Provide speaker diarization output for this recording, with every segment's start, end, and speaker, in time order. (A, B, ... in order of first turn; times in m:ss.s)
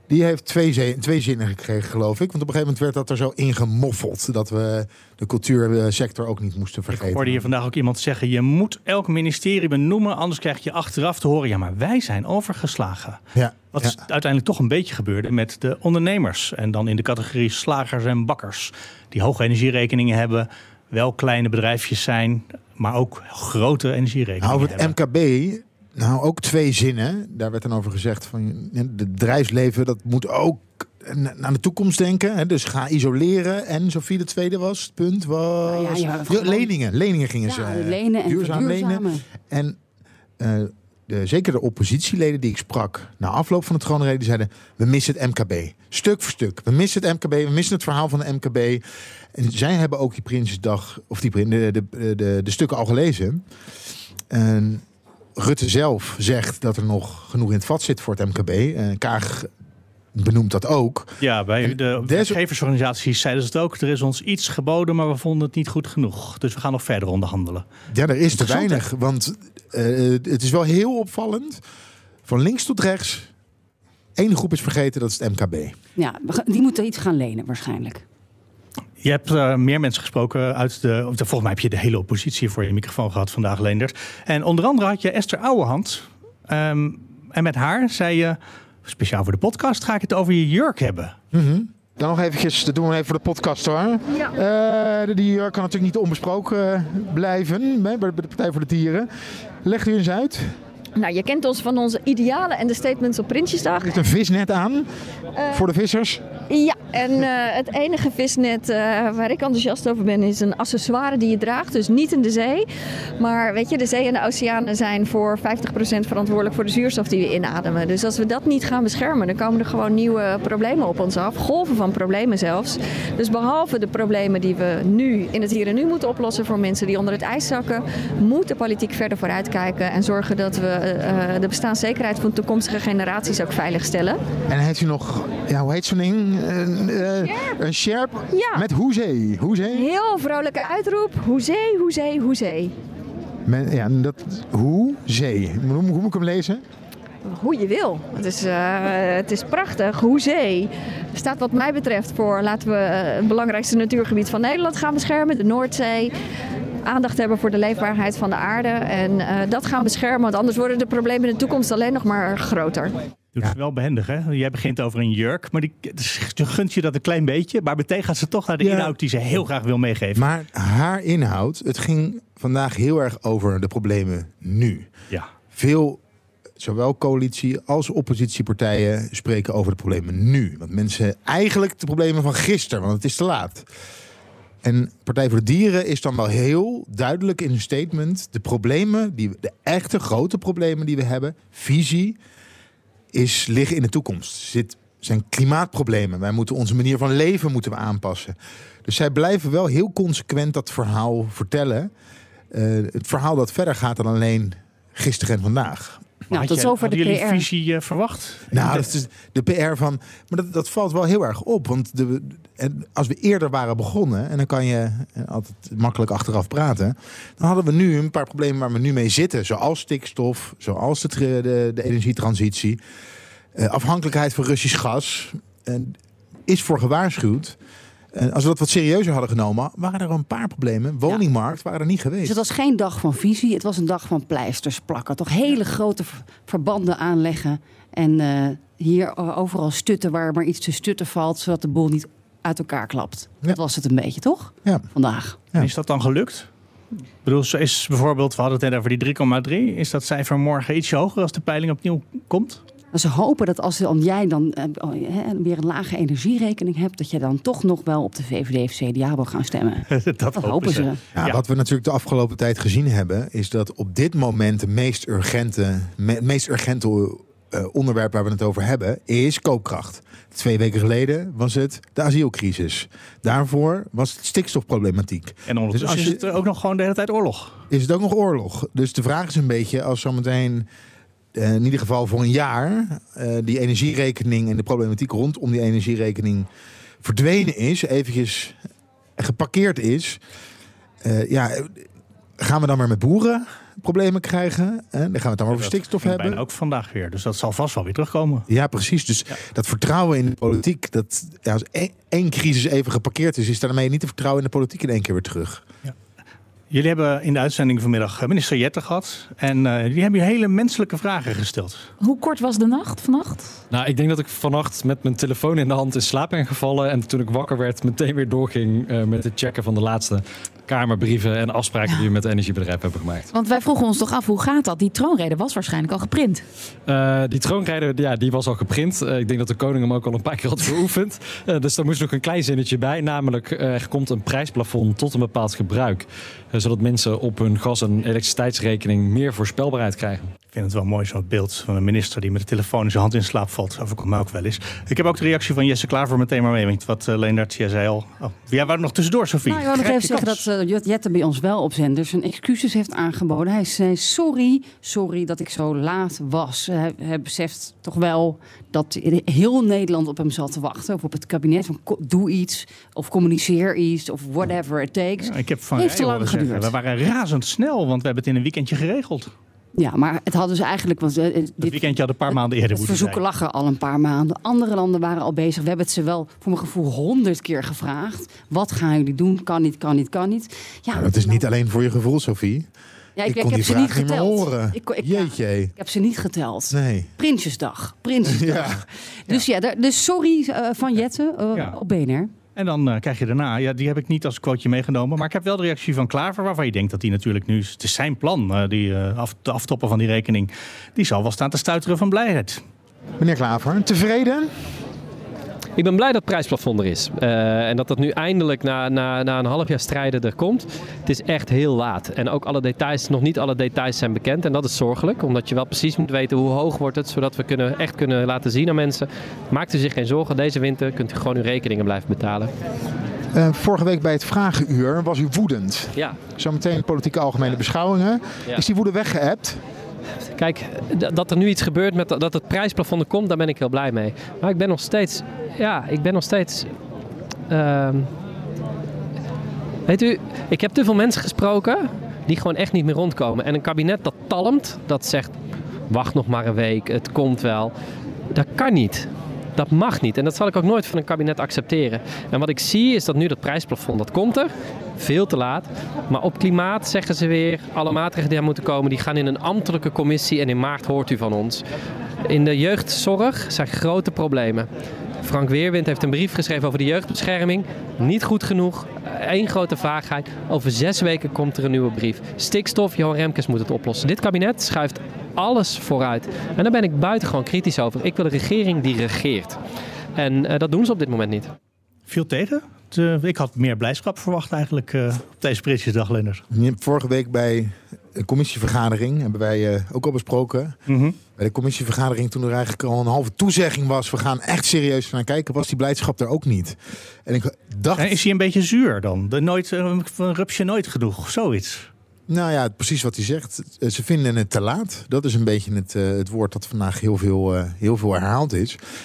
0:00.1-0:07.4 A
0:06.9-0:13.2 B
0:13.3-0:14.0 A
0:13.7-0:24.9 B
0:24.4-0:39.8 A
0:35.6-0:36.7 C
0:37.4-0:39.2 C
0:40.4-0:48.8 A
0:49.3-0:53.4 A
0:54.3-0:54.8 A
0:55.4-0:59.5 A
1:00.1-1:02.4 A
1:01.2-1:07.6 B
1:07.9-1:11.6 A
1:12.2-1:13.3 A
1:14.2-1:15.7 A
1:16.0-1:18.0 C
1:19.0-1:31.1 B
1:31.3-1:39.1 A
1:39.6-1:40.5 A
1:41.0-1:44.0 D
1:43.8-1:44.9 A
1:45.4-1:45.6 D
1:45.5-1:46.2 A
1:46.5-1:52.6 D
1:53.2-2:14.2 D
2:14.5-2:19.9 A
2:18.3-2:18.6 D
2:19.7-2:22.7 D
2:23.4-2:26.6 A
2:27.2-2:36.1 D
2:36.8-2:43.0 D
2:43.3-2:50.2 B
2:48.6-2:49.0 A
2:50.2-2:54.9 A
2:55.5-2:56.0 A
2:56.6-3:03.7 A
3:04.6-3:12.2 A
3:13.1-3:21.9 A
3:22.5-3:26.1 A
3:26.3-3:27.4 C
3:26.3-3:28.9 B
3:28.5-3:42.8 A
3:43.5-3:47.6 A
3:48.1-3:52.4 A
3:52.2-4:05.4 C
4:05.6-4:06.5 B
4:07.2-4:12.6 B
4:12.9-4:21.0 C
4:19.9-4:21.4 B
4:21.1-4:36.2 A
4:35.5-4:37.6 B
4:37.7-4:40.7 A
4:41.3-4:46.5 A
4:47.0-4:48.6 A
4:49.2-4:50.2 A
4:51.0-4:51.9 A
4:52.4-4:56.4 A
4:55.5-4:58.5 B
4:58.5-5:05.6 A
5:06.7-5:11.9 B
5:12.0-5:13.6 E
5:13.7-5:23.3 F
5:23.3-5:26.4 E
5:26.8-5:40.3 F
5:40.5-5:50.5 B
5:49.4-6:06.7 C
6:05.2-6:09.3 B
6:09.8-6:21.4 C
6:11.6-6:13.2 B
6:20.9-6:22.7 A
6:23.2-6:32.3 C
6:23.2-6:25.7 A
6:26.7-6:27.1 A
6:28.2-6:28.8 A
6:32.6-6:42.6 B
6:43.2-6:44.5 A
6:45.8-7:02.5 G
7:03.3-7:09.6 A
7:10.3-7:16.7 G
7:17.5-7:18.1 G
7:19.9-7:25.3 G
7:25.9-7:27.7 G
7:28.3-7:41.6 G
7:42.2-7:44.7 G
7:45.2-7:59.6 G
8:00.2-8:01.5 G
8:02.1-8:06.4 B
8:06.5-8:10.8 A
8:10.9-8:11.2 B
8:11.4-8:18.2 A
8:17.9-8:21.9 B
8:22.3-8:28.8 A